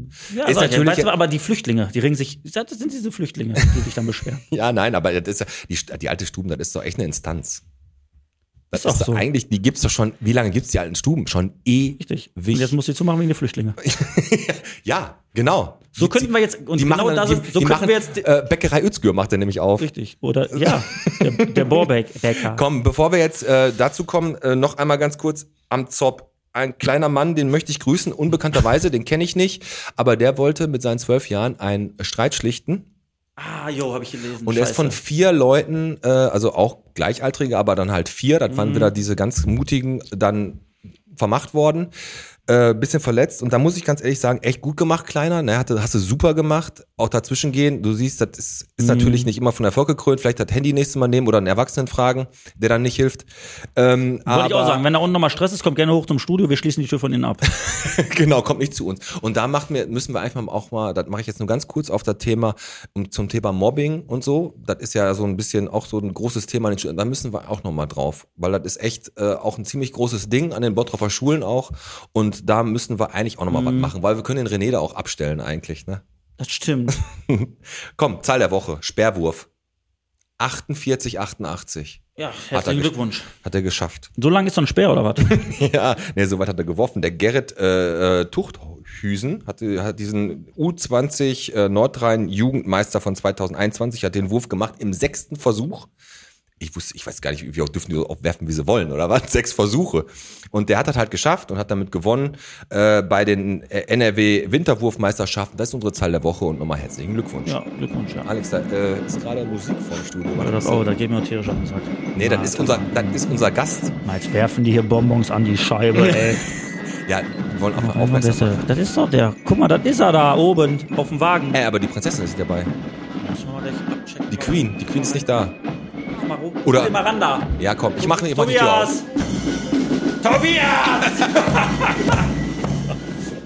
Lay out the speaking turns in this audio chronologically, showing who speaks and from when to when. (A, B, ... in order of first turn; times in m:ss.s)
0:00.3-0:04.4 A
0:00.4-0:01.1 B
0:04.5-0:07.6 B
0:08.7-0:12.7 B
0:08.7-0:09.3 A
0:12.0-0:13.8 A
0:13.8-0:19.9 B
0:15.9-0:18.3 A
0:19.8-0:22.6 A
0:20.5-0:21.9 B
0:22.4-0:32.9 B
0:33.4-0:35.0 A
0:34.4-0:41.9 B
0:38.5-0:38.9 A
0:42.5-0:54.8 B
0:48.8-0:49.3 A
0:54.2-0:57.5 A
0:57.5-1:16.0 B
1:13.5-1:13.9 A
1:16.4-1:17.0 A
1:17.0-1:19.5 B
1:20.4-1:24.1 B
1:22.2-1:23.3 A
1:24.2-1:25.4 A
1:25.3-1:35.9 B
1:36.6-1:47.6 B
1:47.4-1:48.3 A
1:48.2-1:50.9 B
1:50.4-1:53.2 A
1:52.1-1:53.9 B
1:54.0-1:56.4 A
1:55.9-1:56.4 B
1:57.1-1:58.6 B
1:57.8-2:01.6 A
2:01.5-2:02.7 B
2:03.2-2:05.3 A
2:04.3-2:05.5 B
2:06.1-2:09.1 A
2:06.6-2:07.0 B
2:07.6-2:09.0 B
2:10.2-2:12.2 A